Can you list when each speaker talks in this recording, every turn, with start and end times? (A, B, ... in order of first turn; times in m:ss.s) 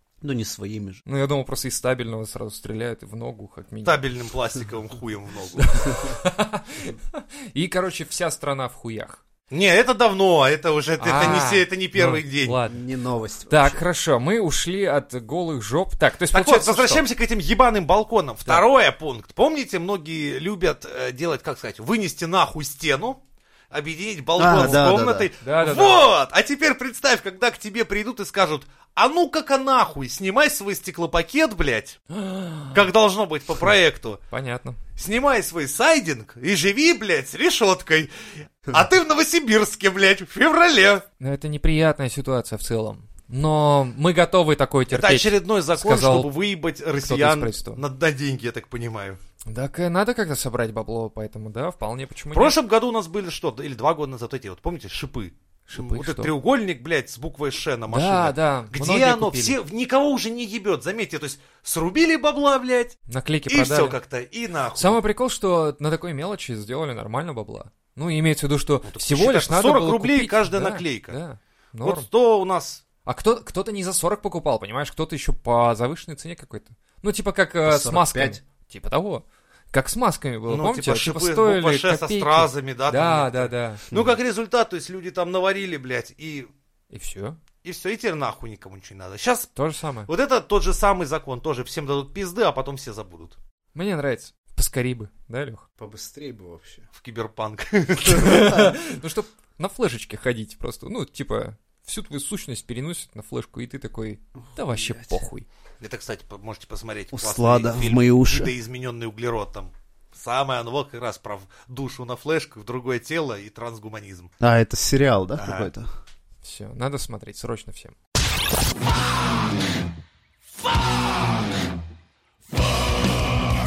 0:00.2-0:01.0 A
0:01.0-0:04.0 B
0:03.8-0:06.1 C
0:05.7-0:09.2 B
0:09.5-0:12.6 C
0:11.0-0:12.8 B
0:12.7-0:13.8 A
0:13.5-0:17.0 B
0:16.3-0:23.2 C
0:23.7-0:32.0 C
0:24.4-0:25.3 A
0:25.4-0:26.1 B
0:32.1-0:32.9 B
0:32.7-0:34.2 C
0:34.3-0:34.8 B
0:35.0-0:41.0 C
0:41.2-0:46.3 B
0:44.9-0:49.2 C
0:47.0-0:47.8 B
0:49.5-0:52.5 B
0:52.3-1:05.0 C
0:55.7-0:56.3 B
0:57.9-0:59.6 B
1:03.1-1:04.0 B
1:04.8-1:12.1 B
1:08.8-1:11.2 C
1:11.8-1:12.8 C
1:13.0-1:24.1 B
1:17.6-1:18.4 A
1:20.5-1:26.5 C
1:26.9-1:27.4 B
1:27.6-1:29.5 C
1:29.5-1:30.1 B
1:30.1-1:33.4 C
1:33.7-1:35.6 B
1:35.8-1:36.8 A
1:36.9-1:38.7 C
1:38.1-1:45.4 B
1:44.7-1:45.2 A
1:45.8-1:54.3 C
1:47.1-1:48.5 A
1:54.4-1:55.9 A
1:55.4-1:55.7 C
1:56.4-1:57.9 B